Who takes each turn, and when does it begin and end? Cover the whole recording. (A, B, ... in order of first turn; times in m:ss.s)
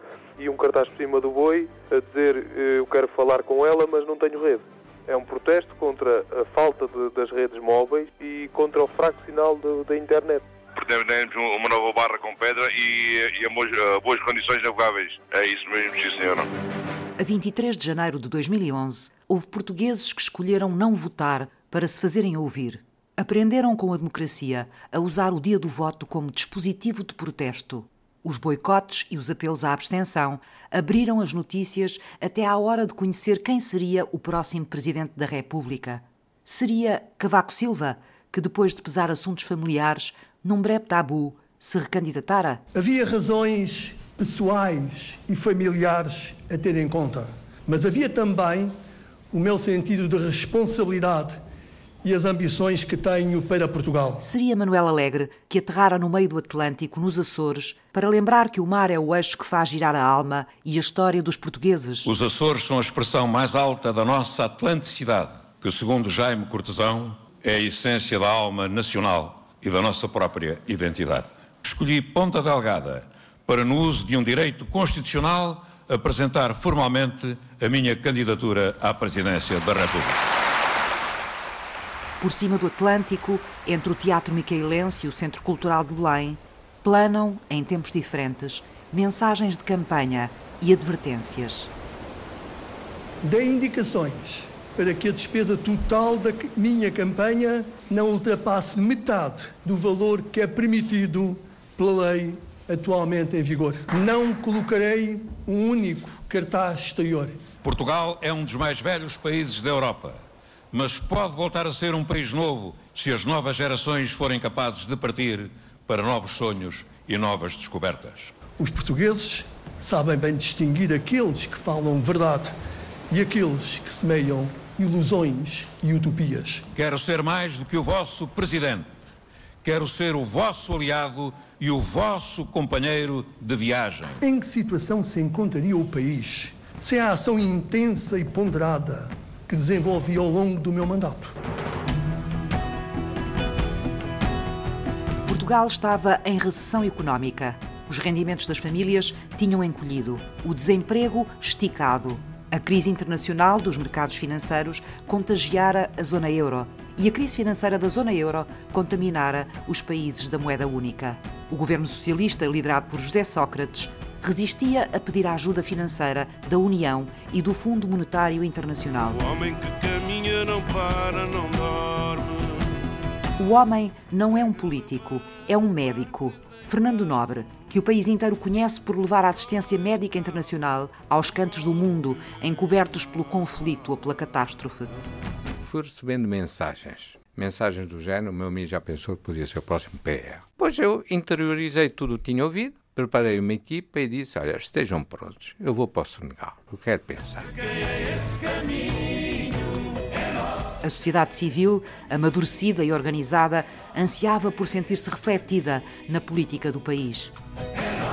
0:00.4-0:10.4 A
0:10.8-0:16.4 B
0:17.2-0:42.6 C
0:42.7-0:48.7 D
0:49.3-0:51.4 D
0:52.0-0:54.2 D
0:54.2-1:02.1 C
1:02.0-1:20.2 E
1:22.2-1:31.7 C
1:33.2-1:47.3 D
1:47.6-1:50.2 E
1:50.7-1:58.3 E
1:58.6-2:02.5 D
2:03.1-2:06.6 D
2:06.7-2:08.9 E
2:09.6-2:14.2 E
2:14.2-2:21.3 D
2:25.2-2:49.2 C
2:49.2-2:52.3 F
2:53.4-3:04.9 C
3:05.6-3:17.5 G
3:20.8-3:27.3 C